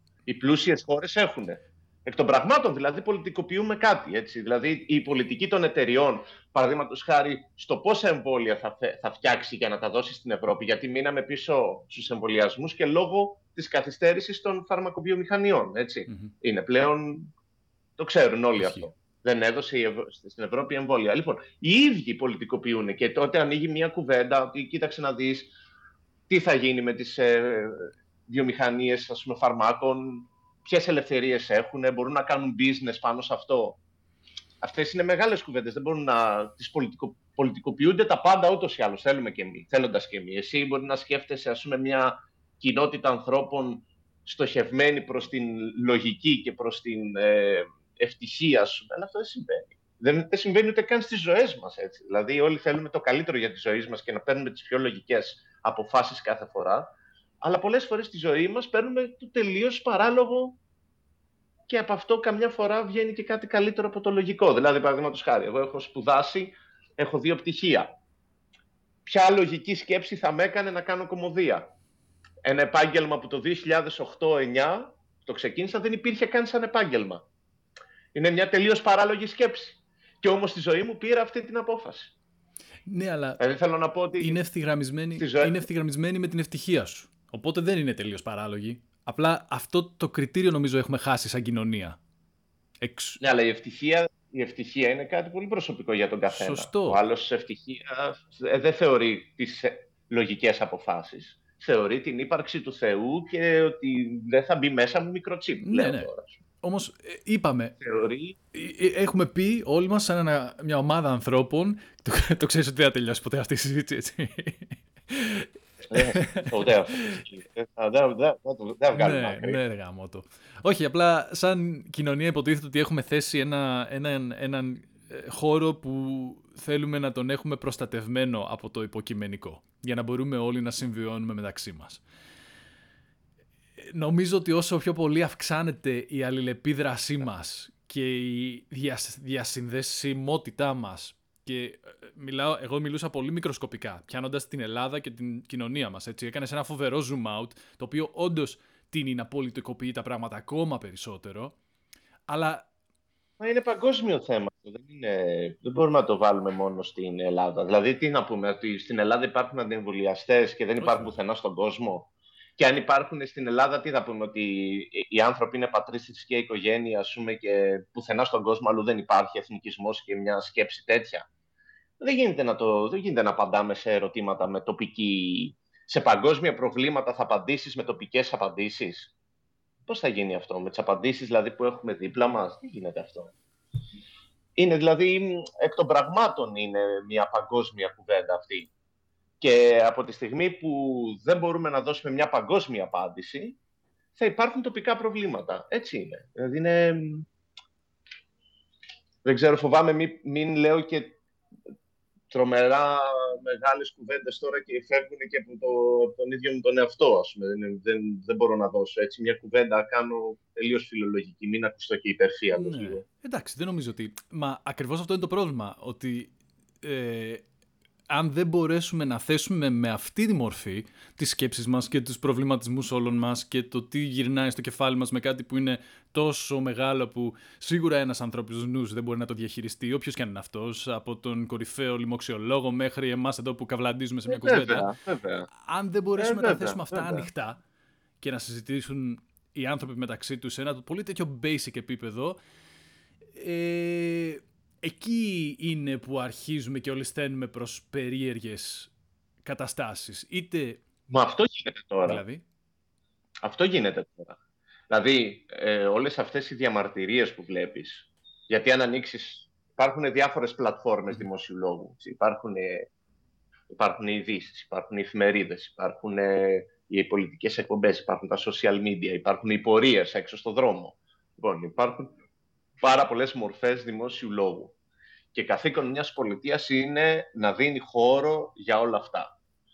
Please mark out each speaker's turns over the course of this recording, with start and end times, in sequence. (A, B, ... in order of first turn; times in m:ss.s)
0:00.3-0:17.3 A
0:18.0-0:25.5 A
0:18.6-0:18.8 B
0:26.3-0:33.8 A
0:34.6-0:56.9 A
0:57.4-1:00.6 A
1:01.7-1:07.9 A
1:09.0-1:11.6 A
1:12.4-1:17.2 A
1:18.1-1:22.1 A
1:22.9-1:23.4 B
1:23.4-1:24.4 A
1:24.2-1:32.0 B
1:25.2-1:25.6 A
1:32.8-1:33.2 B
1:33.2-1:46.4 A
1:36.3-1:37.0 B
1:45.6-1:46.1 B
1:46.6-1:47.7 B
1:47.8-1:48.4 A
1:48.5-1:57.2 B
1:55.9-1:59.6 A
1:58.9-2:12.0 B
2:13.8-2:31.6 B
2:32.3-2:32.6 B
2:33.4-2:51.2 A
2:40.8-2:41.1 B
2:52.0-2:59.1 A
2:59.9-3:03.3 A
3:04.6-3:08.7 A
3:09.4-3:13.6 A
3:14.2-3:17.3 A
3:19.2-3:21.1 A
3:22.3-3:33.0 A
3:32.6-3:37.4 B
3:38.1-3:54.9 B
3:54.3-3:55.5 A
3:55.5-3:57.6 B
3:56.2-3:57.3 A
3:58.2-4:02.4 B
4:03.3-4:08.9 B
4:09.4-4:10.8 B
4:11.1-4:12.2 A
4:12.0-4:12.4 B
4:13.4-4:14.4 A
4:14.9-4:22.9 A
4:23.7-4:32.1 A
4:32.8-4:34.7 A
4:35.3-4:39.3 A